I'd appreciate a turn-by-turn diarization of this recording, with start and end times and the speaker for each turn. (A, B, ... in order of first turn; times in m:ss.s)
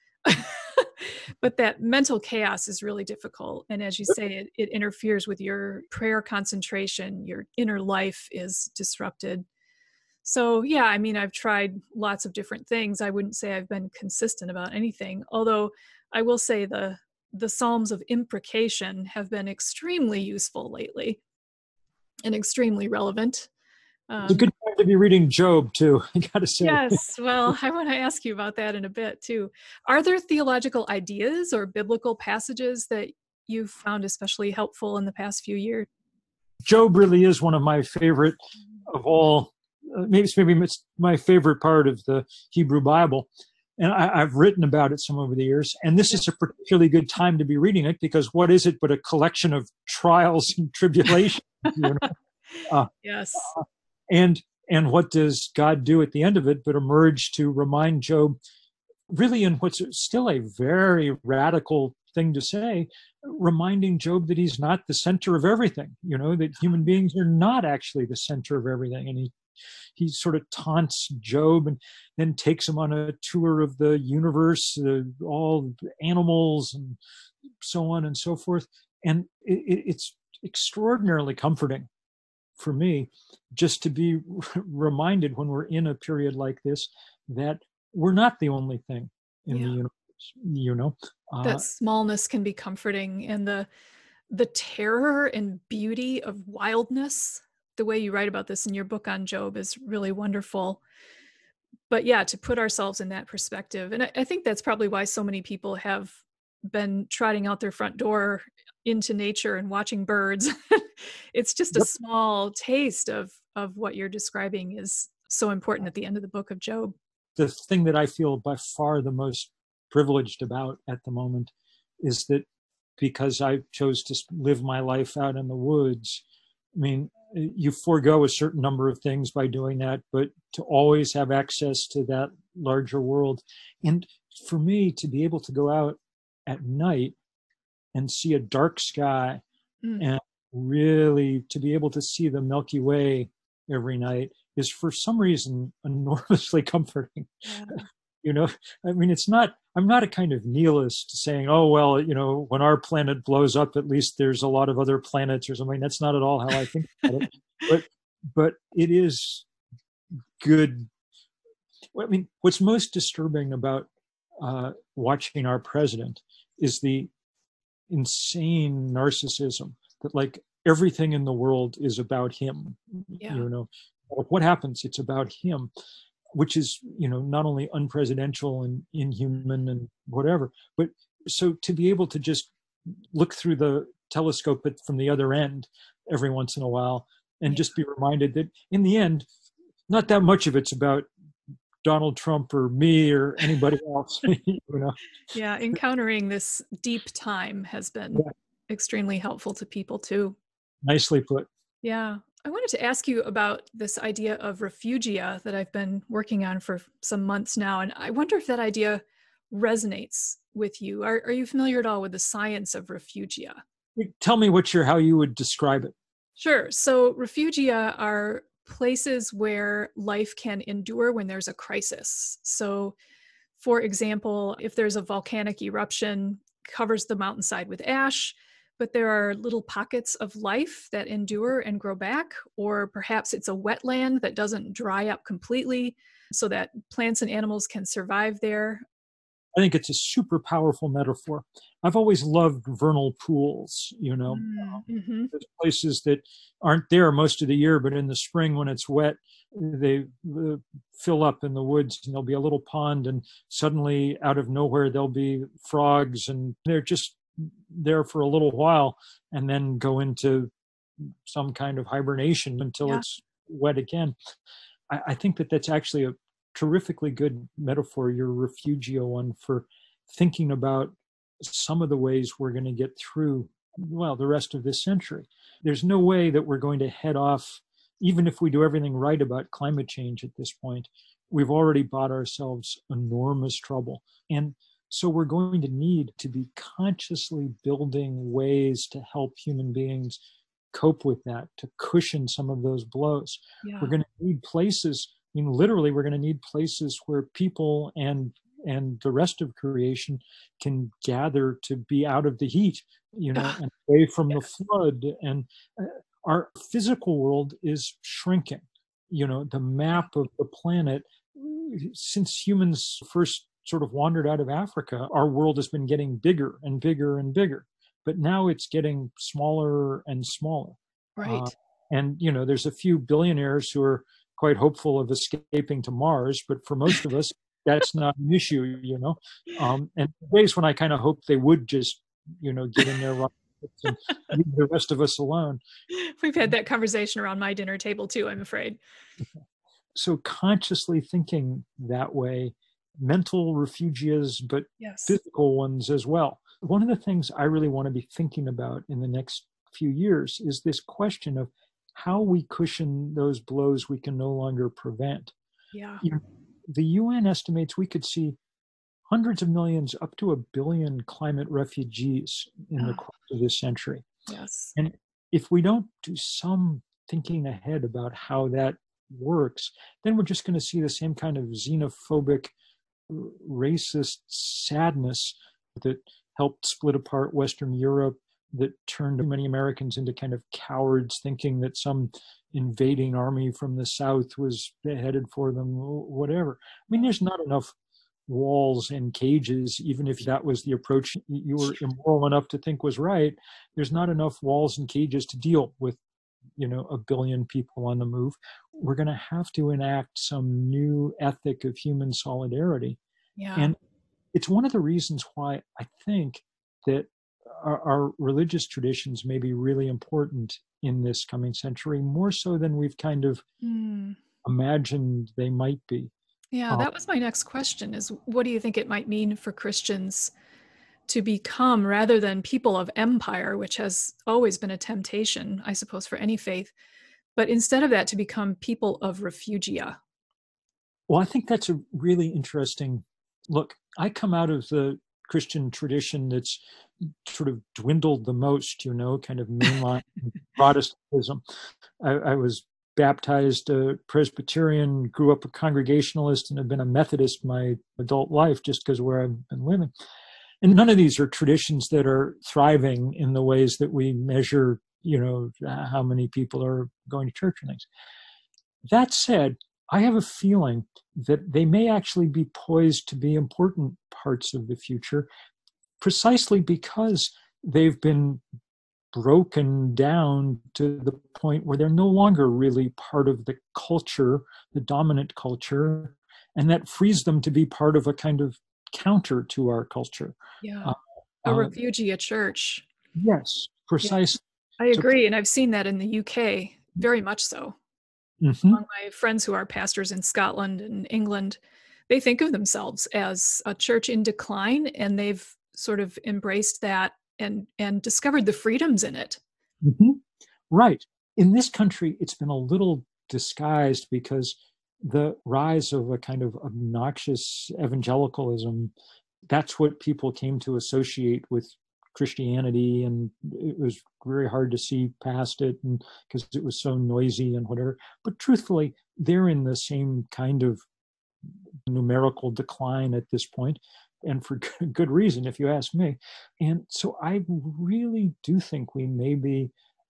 0:00.2-0:09.4 A
0:10.2-0:21.2 A
0:22.2-0:23.5 A
0:24.1-0:24.5 A
0:24.3-0:27.6 B
0:26.6-0:35.9 A
0:36.6-0:52.1 B
0:52.7-0:58.4 B
0:53.0-0:53.5 A
0:59.1-1:09.4 B
1:10.0-1:17.0 B
1:17.6-1:21.9 B
1:22.6-1:31.6 B
1:29.5-1:29.8 A
1:31.4-1:33.7 A
1:34.3-1:40.8 A
1:41.9-1:57.0 A
1:57.4-2:02.5 B
2:03.0-2:06.2 B
2:06.8-2:17.2 B
2:18.0-2:19.4 B
2:20.0-2:39.5 B
2:27.5-2:27.8 A
2:40.4-2:40.9 B
2:42.0-2:47.1 B
2:47.9-2:55.7 B
2:56.3-3:02.5 B
3:03.1-3:09.3 B
3:09.9-3:11.1 B
3:11.8-3:15.0 B
3:15.3-3:20.4 A
3:20.8-3:21.5 B
3:21.8-3:33.6 A
3:34.0-3:36.0 B
3:36.4-3:43.0 A
3:43.6-3:58.8 A
3:59.5-4:24.2 B
4:04.3-4:05.3 A
4:24.9-4:50.2 B
4:50.7-5:35.6 B
4:53.6-4:53.9 A
5:21.2-5:21.5 A
5:35.9-5:38.8 A
5:40.0-5:55.3 B
5:44.8-5:45.2 A
5:55.7-5:56.0 A
5:56.0-5:58.4 B
5:59.1-6:04.1 B
6:04.3-6:04.7 A
6:04.8-6:12.5 B
6:13.1-6:27.7 B
6:28.3-6:36.0 B
6:36.6-6:43.0 B
6:43.4-6:43.7 A
6:44.3-6:53.4 B
6:53.6-6:54.2 A
6:54.4-6:56.1 B
6:56.5-7:00.3 A
7:01.1-7:06.7 A
7:07.4-7:10.0 A
7:11.1-7:16.6 B
7:17.2-7:21.4 B
7:22.0-7:29.9 B
7:30.6-7:37.9 B
7:38.9-7:45.3 B
7:46.0-7:48.4 B
7:49.1-8:01.7 B
8:00.6-8:00.9 A
8:01.5-8:02.8 A
8:03.2-8:05.1 B
8:04.8-8:07.8 A
8:08.4-8:08.8 B
8:08.7-8:11.6 A
8:12.1-8:19.4 A
8:19.8-8:28.9 B
8:29.5-8:40.8 B
8:41.9-8:49.7 B